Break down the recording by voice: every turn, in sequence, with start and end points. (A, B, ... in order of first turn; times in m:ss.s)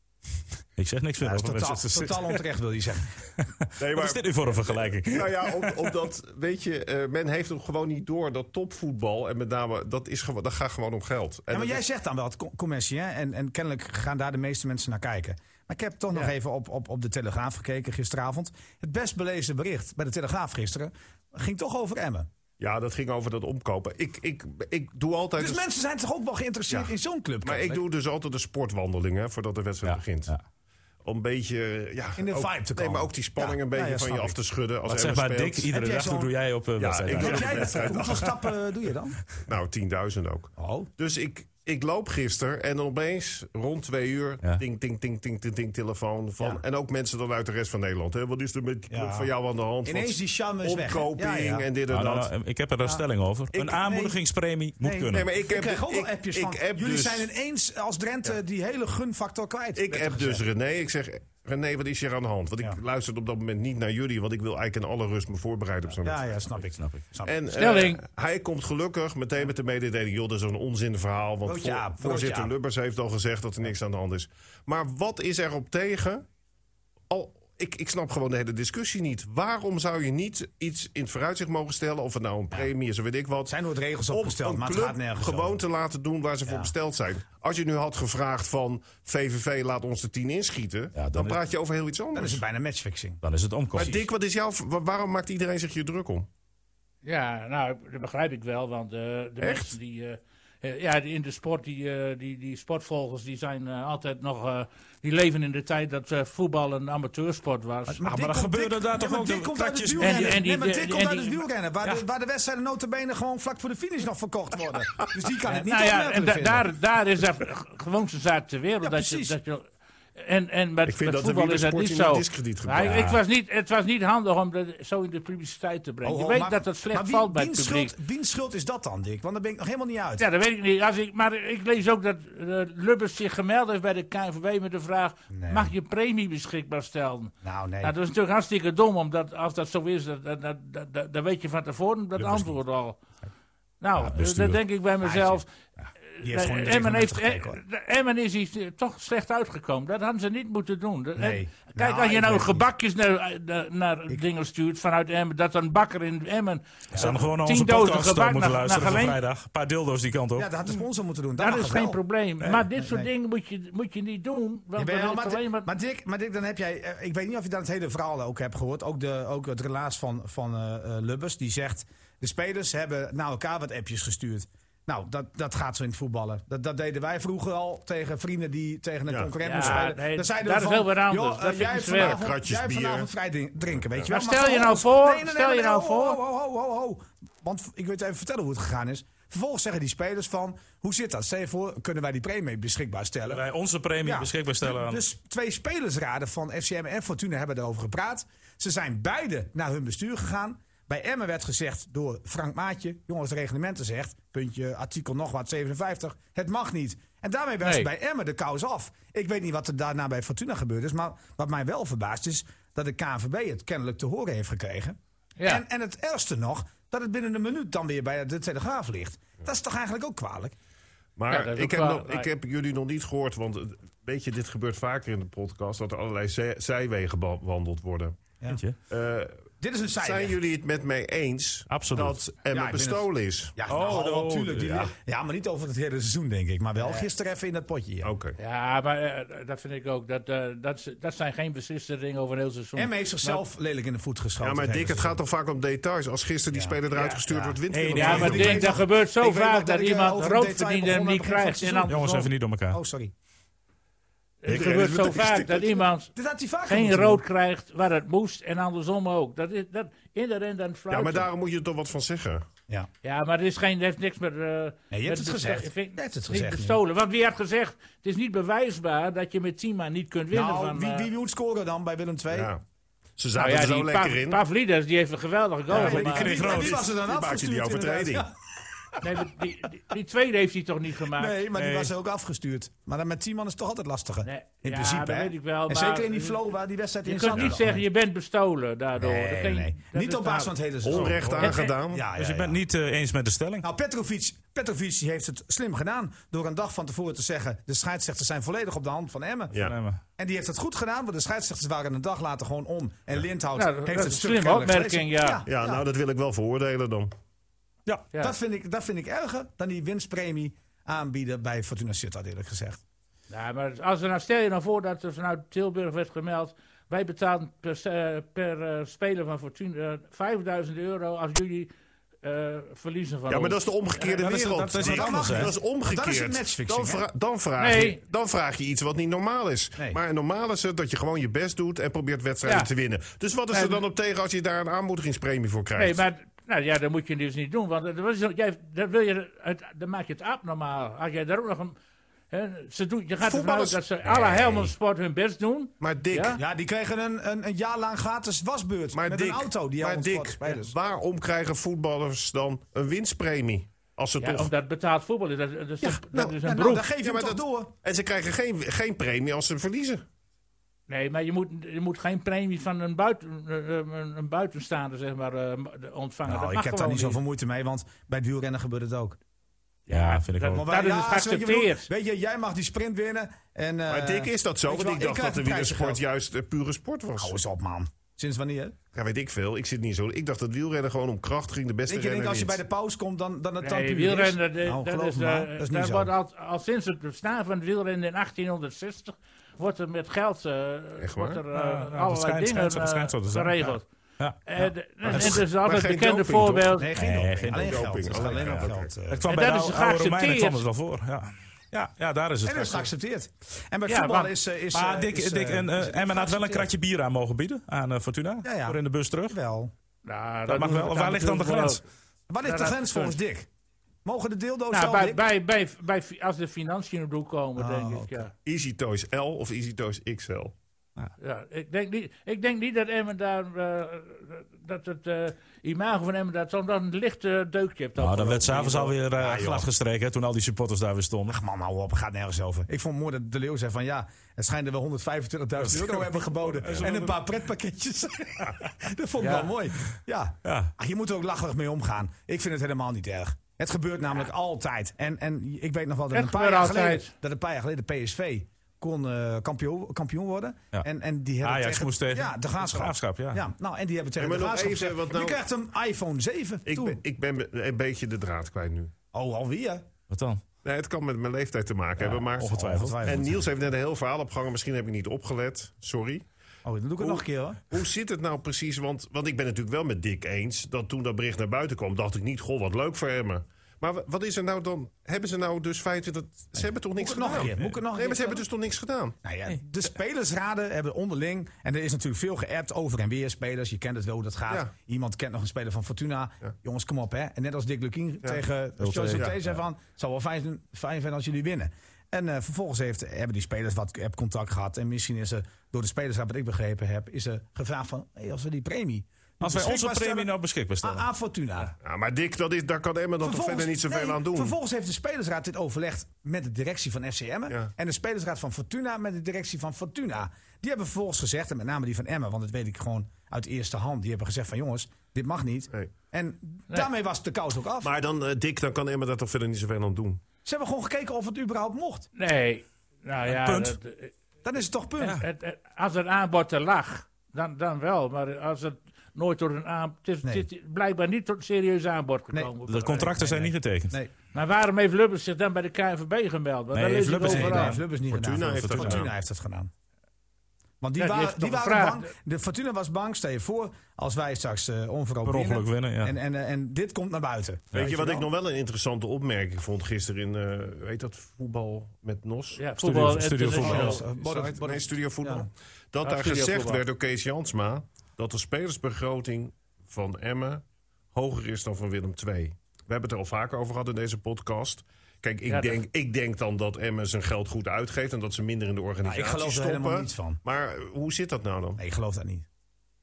0:00.8-0:02.4 A
0:01.2-0:03.1 B
0:03.4-0:05.9 A
0:03.8-0:11.8 C
0:11.5-0:22.3 B
0:22.6-0:25.6 C
0:25.4-0:27.8 B
0:27.4-0:30.4 C
0:29.8-0:30.4 A
0:31.0-0:35.7 C
0:32.2-0:34.4 B
0:34.9-0:38.2 A
0:35.7-0:36.3 B
0:36.8-0:38.4 C
0:37.1-0:39.2 B
0:39.4-0:52.3 C
0:40.6-0:40.9 B
0:48.9-0:49.3 B
0:49.8-0:51.7 B
0:51.9-0:55.3 A
0:53.6-0:54.2 B
0:54.8-1:00.4 B
0:55.1-0:57.3 C
0:59.8-1:06.2 C
1:06.0-1:07.4 B
1:07.2-1:16.2 C
1:07.5-1:08.0 D
1:11.4-1:12.5 B
1:17.1-1:23.5 C
1:23.5-1:25.6 B
1:24.1-1:32.4 C
1:26.5-1:26.7 B
1:31.0-1:31.4 A
1:32.1-1:33.2 B
1:33.2-1:34.0 A
1:33.7-1:36.3 C
1:37.0-1:48.0 D
1:39.4-1:39.7 C
1:47.9-1:56.7 B
1:48.0-1:50.4 A
1:50.0-1:51.4 D
1:55.5-1:59.6 D
1:58.8-1:59.4 B
2:00.2-2:08.0 D
2:00.9-2:03.1 C
2:02.8-2:03.2 A
2:06.0-2:10.3 B
2:10.2-2:23.0 D
2:15.3-2:15.7 B
2:17.4-2:17.9 B
2:23.8-2:25.5 D
2:24.0-2:24.6 A
2:25.0-2:25.4 B
2:26.1-2:39.2 D
2:26.2-2:27.6 B
2:31.2-2:32.7 B
2:36.9-2:37.2 B
2:37.0-2:40.5 A
2:40.4-2:43.1 B
2:41.4-2:45.7 D
2:44.8-3:13.4 B
2:59.4-3:02.2 D
3:02.0-3:03.1 C
3:04.1-3:06.2 D
3:13.3-3:15.0 A
3:14.0-3:40.6 B
3:27.6-3:27.9 D
3:35.4-3:35.6 D
3:41.2-3:48.2 C
3:41.3-3:42.3 D
3:48.5-3:48.8 A
3:48.9-3:49.3 C
3:49.6-3:50.4 B
3:50.0-3:53.6 C
3:51.7-3:52.2 A
3:52.5-3:58.1 B
3:53.7-3:54.9 A
3:58.0-3:58.4 C
3:58.4-4:03.4 D
4:02.8-4:05.2 B
4:04.4-4:08.8 C
4:06.5-4:11.9 B
4:07.7-4:08.6 A
4:07.9-4:12.3 D
4:11.9-4:12.8 A
4:12.7-4:13.1 B
4:14.4-4:16.1 D
4:14.5-4:15.8 C
4:16.2-4:17.2 B
4:16.7-4:21.3 D
4:20.9-4:22.5 C
4:23.0-4:31.1 D
4:24.9-4:26.8 B
4:30.3-4:32.5 B
4:32.3-4:32.6 C
4:33.2-4:34.4 C
4:33.4-4:36.4 D
4:35.7-4:38.3 B
4:35.7-4:36.8 A
4:36.3-4:38.3 C
4:39.0-4:41.4 D
4:41.1-4:47.8 B
4:41.6-4:41.9 A
4:44.2-4:46.4 D
4:47.0-4:50.5 D
4:49.0-4:52.6 B
4:50.8-4:52.1 C
4:51.4-4:51.7 D
4:52.2-4:53.7 A
4:53.6-4:59.6 B
4:59.6-5:00.0 A
5:00.2-5:05.8 B
5:03.6-5:05.4 D
5:05.5-5:07.1 C
5:08.2-5:12.8 B
5:13.3-5:21.7 D
5:22.2-5:24.2 D
5:23.3-5:36.0 C
5:24.2-5:25.5 A
5:24.7-5:27.0 B
5:27.6-5:28.0 D
5:33.5-5:33.8 D
5:35.8-5:41.8 D
5:42.3-5:46.4 D
5:43.2-5:44.7 C
5:45.8-5:46.4 C
5:46.4-5:50.7 B
5:48.9-5:54.5 C
5:54.2-5:56.9 D
5:55.8-5:56.4 C
5:56.4-5:57.7 B
5:57.0-6:00.0 C
6:00.9-6:07.2 D
6:06.3-6:09.2 B
6:09.9-6:11.9 D
6:09.9-6:10.7 A
6:10.5-6:16.0 B
6:13.9-6:17.4 C
6:17.2-6:18.8 B
6:18.9-6:22.6 C
6:21.9-6:26.1 B
6:23.6-6:33.9 D
6:31.0-6:31.4 C
6:31.5-6:34.4 A
6:34.4-6:36.9 D
6:35.1-6:36.8 C
6:36.7-6:39.3 B
6:37.0-6:42.9 A
6:37.5-6:38.9 C
6:39.3-6:40.6 D
6:42.4-6:46.7 B
6:43.9-6:44.3 D
6:44.7-6:49.4 A
6:48.4-6:49.7 B
6:50.0-6:51.8 D
6:50.5-6:51.8 A
6:52.3-6:53.5 B
6:52.4-6:53.2 D
6:54.0-6:55.2 B
6:54.7-6:58.3 D
6:57.6-6:58.2 B
6:58.4-7:00.5 C
7:01.2-7:09.0 D
7:08.0-7:11.4 A
7:09.2-7:09.7 B
7:11.3-7:37.0 B
7:15.6-7:17.2 A
7:19.2-7:19.5 D
7:20.4-7:20.7 A
7:26.1-7:27.1 D
7:31.4-7:33.4 A
7:34.2-7:35.4 C
7:36.7-7:38.9 C
7:39.1-7:39.9 B
7:40.1-7:40.4 A
7:40.6-7:46.2 C
7:42.0-7:43.3 A
7:42.4-7:43.5 B
7:46.6-7:47.6 B
7:47.0-7:59.2 C
7:57.0-7:58.5 B
7:59.2-8:20.3 B
8:08.8-8:09.6 A
8:19.4-8:21.1 A
8:20.8-8:21.8 B
8:21.8-8:24.6 C
8:23.2-8:37.9 B
8:37.8-8:40.2 C
8:40.4-8:42.1 B
8:42.2-8:44.1 D
8:43.3-8:43.8 A
8:44.4-8:45.2 B
8:45.1-8:53.4 D
8:52.3-8:54.1 B
8:52.7-8:54.0 A
8:54.3-8:57.8 D
8:56.7-8:59.0 A
8:57.2-8:59.7 B
8:58.1-8:59.1 C
9:00.8-9:08.3 B
9:01.0-9:02.1 D
9:05.2-9:06.2 A
9:07.7-9:12.6 C
9:12.6-9:14.0 D
9:12.8-9:14.0 A
9:13.5-9:15.5 B
9:13.6-9:31.8 C
9:16.0-9:16.8 D
9:25.5-9:25.8 D
9:29.0-9:30.4 B
9:31.8-9:32.5 B